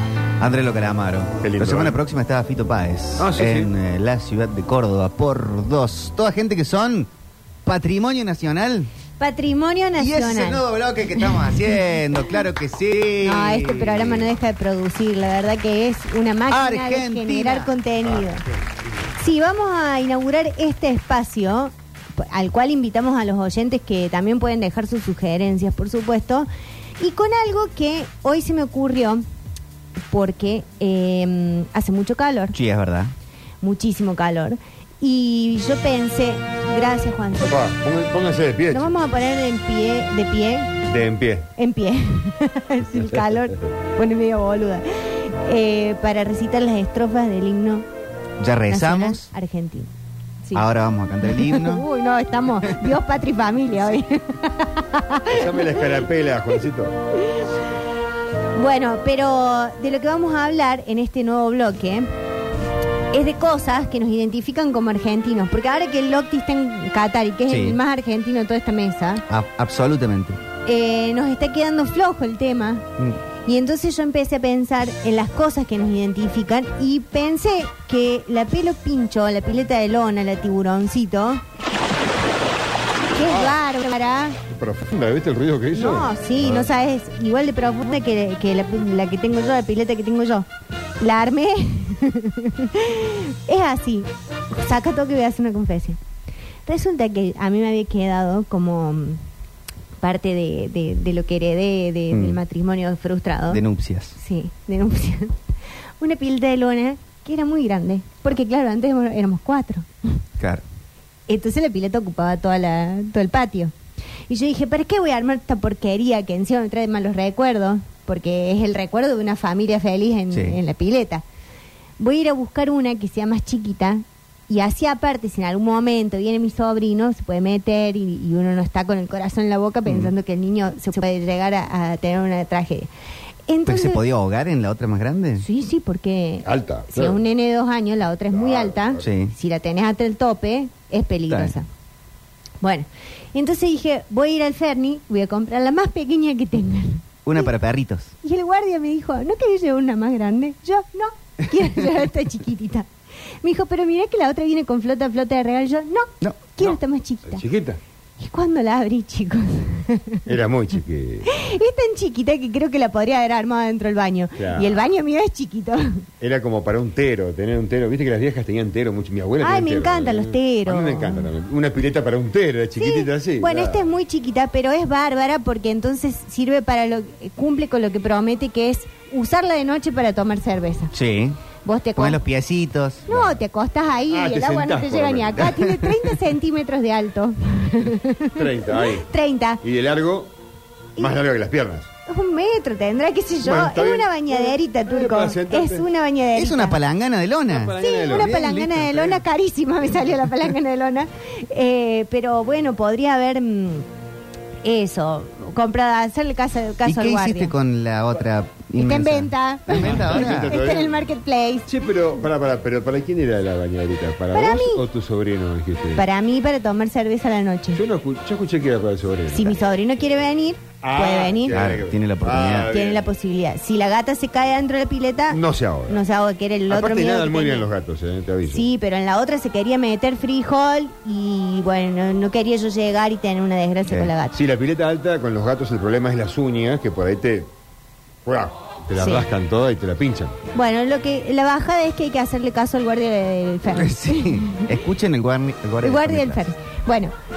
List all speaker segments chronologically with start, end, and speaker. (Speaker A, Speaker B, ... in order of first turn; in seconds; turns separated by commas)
Speaker A: 0.4-7.1, Speaker B: 1.4-2.0, Speaker B: 3.2-3.7, Speaker A: 7.7-8.9, Speaker C: 9.2-11.6, Speaker A: 10.0-14.3, Speaker C: 13.2-18.4, Speaker A: 16.5-17.7, Speaker C: 19.1-26.5, Speaker C: 27.0-29.2, Speaker C: 30.1-32.5, Speaker A: 32.5-33.1, Speaker C: 33.6-37.6, Speaker B: 37.4-38.9, Speaker C: 38.7-40.8, Speaker B: 40.8-41.5, Speaker C: 41.6-47.9, Speaker A: 48.4-49.3, Speaker C: 48.7-49.9, Speaker A: 50.5-51.9, Speaker C: 51.2-55.8, Speaker B: 55.3-57.0, Speaker C: 57.2-57.5, Speaker C: 58.5-62.1, Speaker C: 63.1-69.2, Speaker A: 67.5-67.8, Speaker A: 69.3-70.4, Speaker C: 70.7-72.9, Speaker C: 73.5-81.4, Speaker C: 83.1-84.4, Speaker B: 83.2-83.6, Speaker B: 84.5-86.7, Speaker C: 85.7-90.5, Speaker C: 91.0-96.0, Speaker C: 96.7-99.2, Speaker C: 100.0-103.6, Speaker A: 102.1-102.4, Speaker A: 103.5-104.2, Speaker C: 104.2-105.4, Speaker C: 106.0-109.9, Speaker A: 110.4-110.6, Speaker C: 111.3-113.7, Speaker C: 114.3-121.2, Speaker A: 120.3-120.6, Speaker C: 122.0-132.9, Speaker C: 133.5-134.0, Speaker A: 133.7-135.4, Speaker C: 135.4-141.7, Speaker B: 136.4-137.2, Speaker B: 138.3-139.0, Speaker A: 139.0-139.3, Speaker A: 141.3-141.6, Speaker C: 142.6-147.5, Speaker A: 147.3-148.1, Speaker C: 148.2-152.9, Speaker C: 153.4-157.4, Speaker B: 157.3-157.8, Speaker C: 158.2-160.2, Speaker B: 160.3-161.3, Speaker C: 161.2-166.1, Speaker B: 164.4-164.8, Speaker B: 166.2-173.9, Speaker C: 169.4-171.3, Speaker C: 172.8-180.9, Speaker A: 180.9-181.4, Speaker C: 181.6-182.2, Speaker A: 182.0-183.1, Speaker C: 183.1-189.6, Speaker B: 184.1-185.6, Speaker B: 188.3-189.1, Speaker B: 189.6-190.3, Speaker B: 191.0-191.9, Speaker C: 192.1-196.8, Speaker B: 193.4-195.9, Speaker A: 196.3-198.6, Speaker B: 197.5-199.2, Speaker C: 197.8-203.9, Speaker C: 204.6-207.5, Speaker A: 206.8-210.6, Speaker C: 208.8-211.7, Speaker B: 209.7-211.0, Speaker B: 211.7-216.1, Speaker C: 214.3-214.8, Speaker C: 215.9-217.8, Speaker B: 217.8-219.6, Speaker C: 219.3-221.7, Speaker B: 220.8-223.1, Speaker A: 221.5-222.7, Speaker C: 222.7-227.7, Speaker B: 225.3-226.0, Speaker B: 226.7-228.7, Speaker C: 228.5-234.4, Speaker B: 234.3-237.5, Speaker B: 238.3-240.3, Speaker C: 239.0-239.3, Speaker C: 240.5-244.8, Speaker A: 243.7-246.5, Speaker C: 245.8-247.1